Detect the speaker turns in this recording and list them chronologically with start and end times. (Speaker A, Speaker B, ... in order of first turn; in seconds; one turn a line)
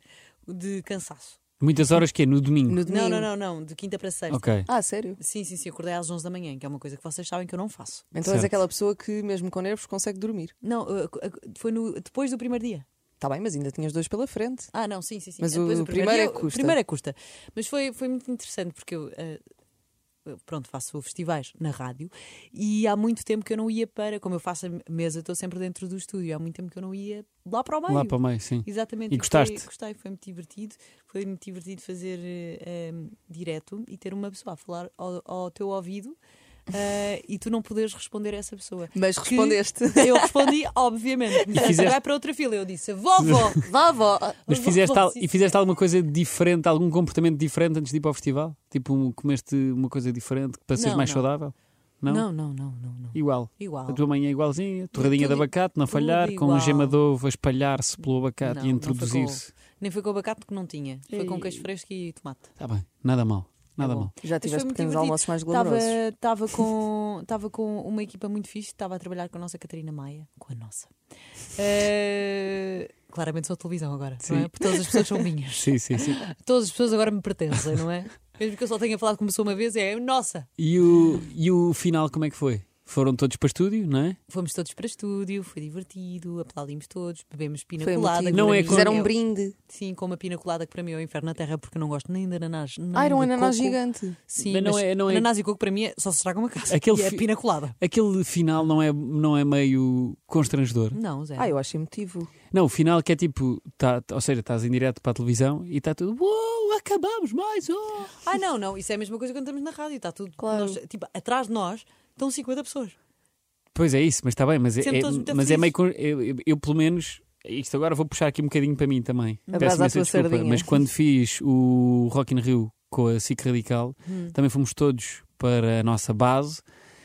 Speaker A: 0.5-1.4
Speaker B: 1.6-2.8
Speaker C: 2.7-3.3
Speaker A: 2.9-4.7
Speaker B: 4.3-4.7
Speaker C: 4.7-5.2
Speaker A: 5.2-8.0
Speaker C: 8.1-10.5
Speaker B: 8.2-8.5
Speaker A: 10.6-12.8
Speaker C: 13.2-14.7
Speaker A: 14.7-19.4
Speaker C: 15.4-16.8
Speaker A: 20.2-36.2
Speaker B: 27.9-29.6
Speaker A: 36.7-43.6
Speaker C: 38.9-40.4
Speaker B: 41.5-42.0
Speaker C: 43.6-44.4
Speaker A: 44.4-45.5
Speaker B: 44.5-52.3
Speaker A: 50.7-51.3
Speaker A: 52.0-54.0
Speaker B: 53.1-59.5
Speaker A: 54.9-57.0
Speaker A: 58.4-62.4
Speaker B: 61.1-61.6
Speaker B: 62.6-64.1
Speaker A: 63.8-70.9
Speaker C: 64.2-66.0
Speaker A: 71.5-80.5
Speaker B: 74.2-75.0
Speaker B: 75.6-76.2
Speaker B: 80.6-84.2
Speaker A: 84.3-97.8
Speaker C: 87.8-89.5
Speaker B: 88.3-89.0
Speaker C: 92.9-94.2
Speaker B: 94.4-95.3
Speaker B: 96.7-101.0
Speaker A: 100.9-101.5
Speaker C: 101.4-102.3
Speaker B: 102.5-108.1
Speaker A: 108.1-113.0
Speaker C: 110.4-110.8
Speaker B: 113.7-126.6
Speaker A: 114.8-115.7
Speaker A: 119.5-119.8
Speaker C: 119.5-120.8
Speaker A: 124.1-124.3